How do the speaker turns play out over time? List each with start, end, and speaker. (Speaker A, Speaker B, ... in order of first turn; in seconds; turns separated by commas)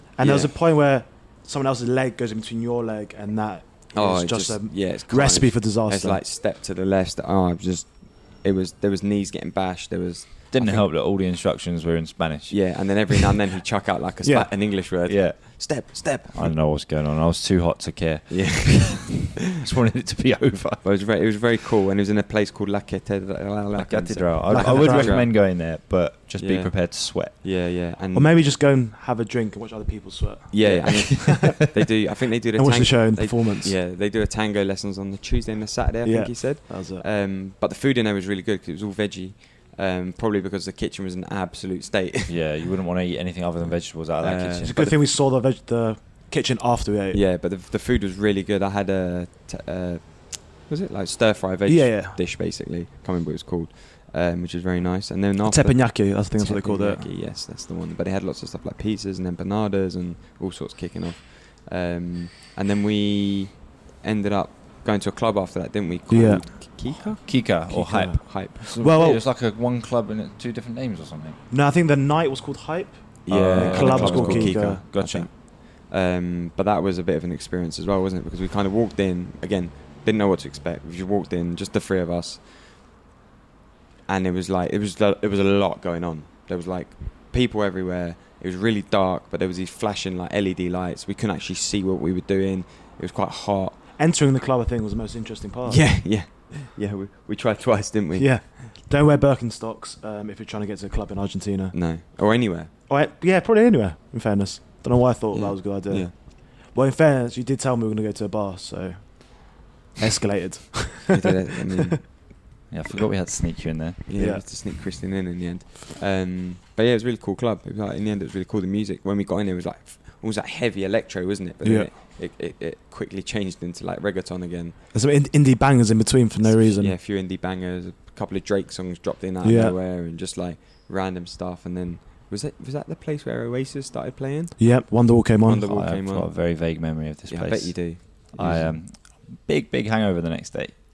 Speaker A: 0.1-6.2, Speaker B: 0.2-0.5, Speaker B: 3.9-10.9, Speaker C: 10.5-13.2, Speaker B: 12.5-16.6, Speaker A: 14.2-14.5, Speaker C: 15.1-20.8, Speaker B: 18.3-19.4, Speaker B: 20.8-25.7, Speaker C: 23.7-27.4, Speaker A: 24.4-25.3, Speaker B: 26.4-28.4, Speaker A: 28.1-31.8, Speaker B: 30.5-42.5, Speaker C: 30.6-31.6, Speaker A: 32.5-33.8, Speaker A: 36.0-37.0, Speaker C: 42.3-44.8, Speaker B: 43.6-45.0, Speaker A: 44.6-47.2, Speaker B: 47.1-69.2, Speaker A: 51.6-52.2, Speaker A: 55.4-57.1, Speaker A: 66.1-66.8, Speaker C: 67.2-71.4, Speaker A: 67.4-69.2, Speaker A: 71.5-75.1, Speaker B: 73.3-82.5, Speaker C: 73.3-75.3, Speaker B: 84.1-93.9, Speaker A: 93.9-96.6, Speaker B: 95.7-98.4, Speaker A: 98.1-101.8, Speaker B: 101.7-102.7, Speaker A: 102.9-111.9, Speaker B: 105.3-106.2, Speaker B: 111.1-112.2, Speaker C: 112.7-114.0, Speaker B: 114.1-124.8, Speaker A: 114.2-114.4, Speaker A: 121.6-121.9, Speaker A: 124.9-127.0, Speaker B: 126.4-134.8, Speaker A: 129.4-129.8, Speaker A: 134.6-135.7, Speaker B: 135.4-136.8, Speaker C: 135.6-140.8, Speaker B: 137.3-138.7